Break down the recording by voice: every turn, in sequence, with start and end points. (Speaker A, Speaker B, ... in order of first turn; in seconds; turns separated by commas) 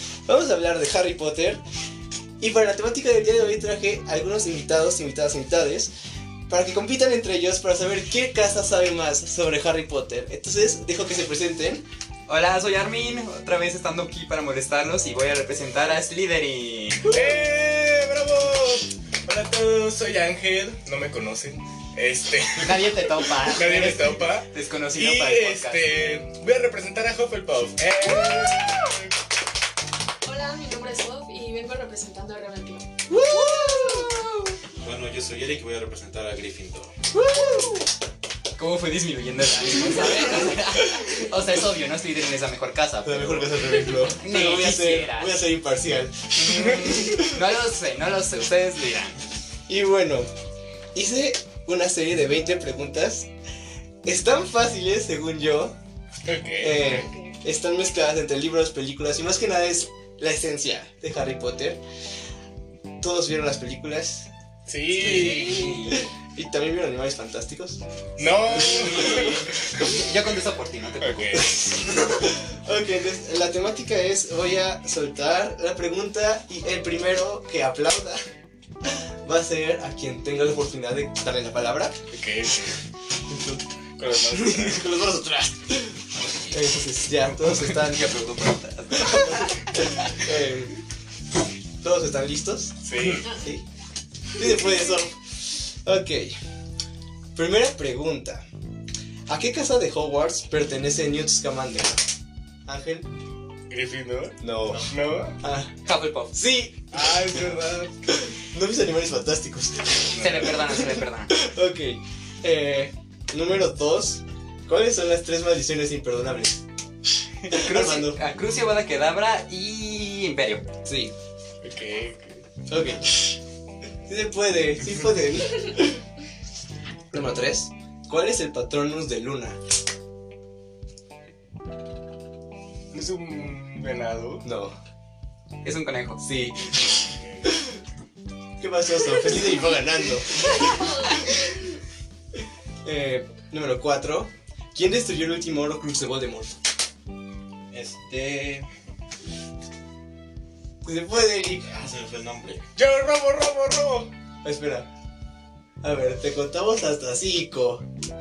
Speaker A: 0.2-1.6, Speaker A: 2.4-5.9, Speaker A: 6.5-11.8, Speaker B: 12.3-17.1, Speaker C: 17.1-29.1, Speaker B: 22.6-25.9, Speaker D: 30.2-34.3, Speaker A: 33.1-34.0, Speaker B: 33.3-33.9, Speaker E: 34.8-36.9, Speaker A: 37.2-37.7, Speaker B: 38.5-45.3, Speaker A: 43.0-47.4, Speaker B: 46.4-49.2, Speaker A: 49.7-50.3, Speaker A: 50.9-53.3, Speaker A: 54.0-55.8, Speaker C: 56.2-57.0, Speaker A: 56.6-61.8, Speaker D: 56.8-57.3, Speaker A: 63.0-64.3, Speaker C: 64.7-65.8, Speaker B: 64.9-66.1, Speaker A: 65.2-69.5, Speaker C: 68.2-69.6, Speaker B: 68.5-71.5, Speaker C: 71.0-71.5, Speaker A: 71.3-78.2, Speaker A: 78.8-82.0, Speaker C: 82.1-82.8, Speaker A: 83.3-83.6, Speaker C: 84.0-84.9, Speaker A: 84.4-88.1, Speaker B: 87.4-90.2, Speaker A: 89.0-90.7, Speaker A: 91.8-93.6, Speaker C: 92.8-93.3, Speaker A: 94.3-96.4, Speaker A: 97.3-98.4, Speaker A: 99.3-102.0, Speaker A: 102.7-103.1, Speaker C: 103.7-105.4, Speaker A: 104.4-105.7, Speaker B: 105.8-106.4, Speaker A: 106.3-116.6, Speaker C: 106.9-107.9, Speaker B: 110.1-111.3, Speaker B: 117.4-120.6, Speaker A: 117.5-118.2, Speaker A: 120.8-121.1, Speaker C: 121.6-122.4, Speaker A: 122.7-123.3, Speaker A: 124.0-126.0, Speaker A: 127.1-129.6, Speaker C: 132.9-134.4, Speaker A: 134.4-134.8, Speaker B: 135.6-136.2, Speaker A: 136.2-137.7, Speaker C: 136.9-137.5, Speaker A: 138.6-141.2, Speaker D: 140.6-141.2, Speaker A: 142.8-146.6, Speaker E: 147.7-148.7, Speaker A: 150.8-151.7, Speaker E: 151.7-152.7, Speaker C: 152.8-154.1, Speaker A: 154.4-154.9, Speaker A: 155.8-157.8